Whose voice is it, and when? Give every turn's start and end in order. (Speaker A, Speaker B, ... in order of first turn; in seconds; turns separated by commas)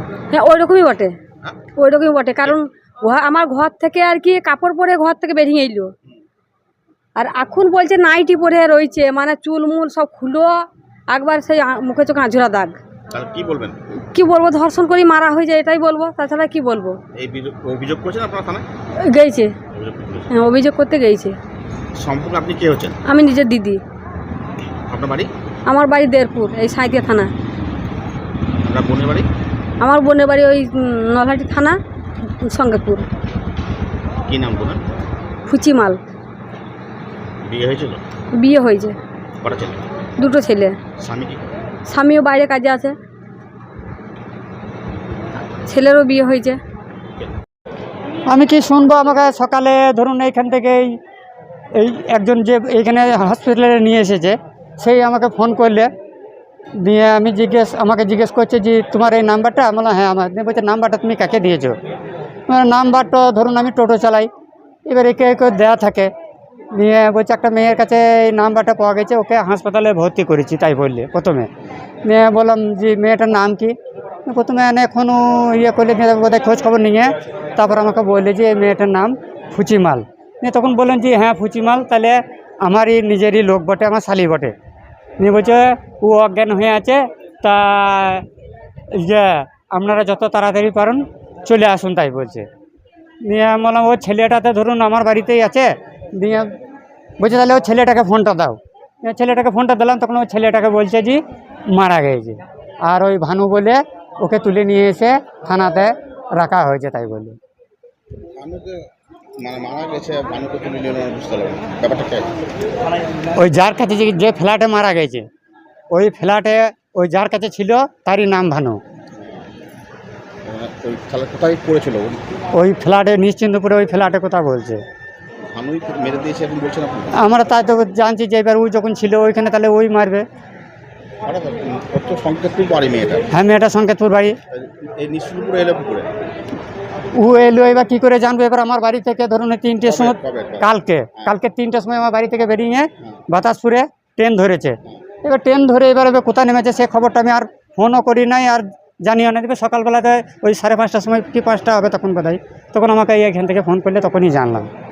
Speaker A: 0.3-1.2, Speaker A: 1.8-5.9, Speaker A: 7.2-12.8, Speaker B: 13.1-13.8, Speaker A: 14.1-17.0, Speaker B: 17.1-18.6, Speaker A: 19.0-19.6, Speaker B: 19.7-20.3, Speaker A: 20.3-21.4, Speaker B: 22.0-22.9, Speaker A: 23.1-23.8, Speaker B: 24.9-25.3, Speaker A: 25.7-27.3, Speaker B: 28.6-29.3, Speaker A: 29.8-31.8, Speaker A: 32.5-33.1, Speaker B: 34.3-34.8, Speaker A: 35.5-36.0, Speaker B: 37.5-38.0, Speaker A: 38.4-39.0, Speaker B: 39.4-39.8, Speaker A: 40.2-40.8, Speaker B: 41.0-41.5, Speaker A: 41.9-43.0, Speaker A: 45.7-46.6, Speaker C: 48.3-50.9, Speaker C: 51.8-55.9, Speaker C: 56.8-61.8, Speaker C: 62.5-64.3, Speaker C: 64.9-66.1, Speaker C: 66.8-71.5, Speaker C: 72.1-73.8, Speaker C: 74.3-84.5, Speaker C: 85.2-88.2, Speaker C: 88.9-92.5, Speaker C: 93.3-96.5, Speaker C: 97.2-101.2, Speaker C: 101.8-107.4, Speaker B: 108.4-108.8, Speaker B: 109.4-112.3, Speaker C: 113.4-115.2, Speaker C: 115.9-118.8, Speaker B: 120.5-122.2, Speaker C: 122.5-124.8, Speaker B: 125.5-127.2, Speaker C: 127.2-130.2, Speaker B: 131.3-133.3, Speaker C: 133.3-134.4, Speaker B: 134.5-136.1, Speaker C: 137.2-154.7, Speaker B: 139.8-140.7